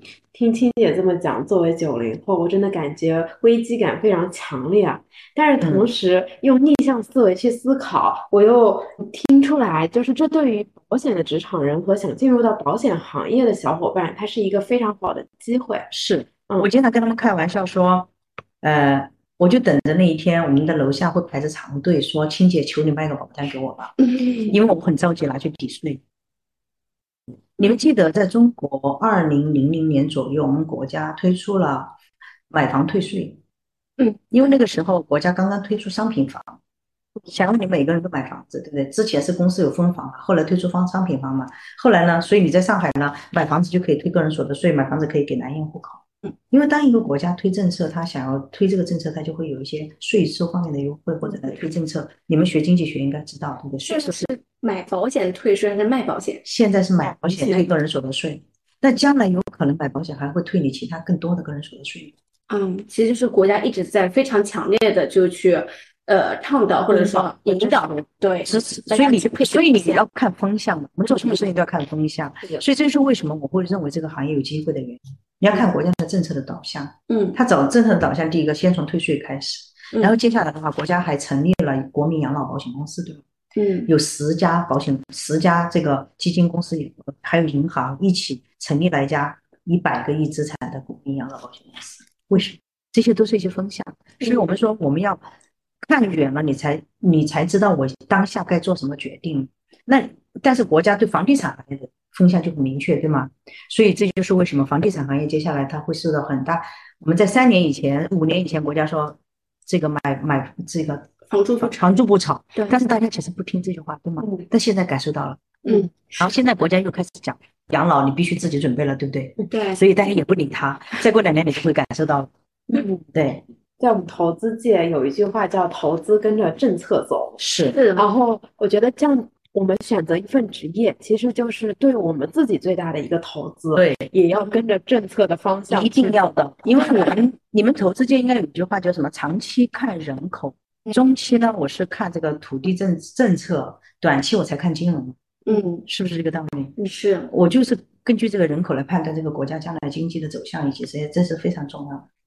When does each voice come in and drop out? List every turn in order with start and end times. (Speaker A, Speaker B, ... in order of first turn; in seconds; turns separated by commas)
Speaker A: 0.3-15.9, Speaker B: 5.6-5.9, Speaker B: 15.9-18.1, Speaker B: 18.6-26.0, Speaker C: 24.0-24.5, Speaker B: 27.6-31.9, Speaker B: 32.5-33.4, Speaker B: 34.3-36.6, Speaker B: 37.2-54.3, Speaker C: 53.9-56.5, Speaker B: 56.5-62.1, Speaker C: 57.2-57.7, Speaker C: 62.5-70.0, Speaker B: 66.9-83.2, Speaker C: 77.1-77.4, Speaker C: 83.6-83.9, Speaker B: 83.9-95.2, Speaker B: 95.8-115.4, Speaker C: 111.3-111.8, Speaker A: 114.2-114.5, Speaker C: 115.6-116.2, Speaker B: 116.2-122.3, Speaker C: 119.5-119.8, Speaker B: 123.1-123.4, Speaker A: 123.8-127.4, Speaker B: 127.4-127.8, Speaker C: 127.7-128.1, Speaker A: 128.0-136.2, Speaker B: 133.7-134.1, Speaker B: 135.7-145.2, Speaker C: 145.5-145.8, Speaker B: 145.8-146.8, Speaker C: 146.8-147.3, Speaker B: 147.3-152.1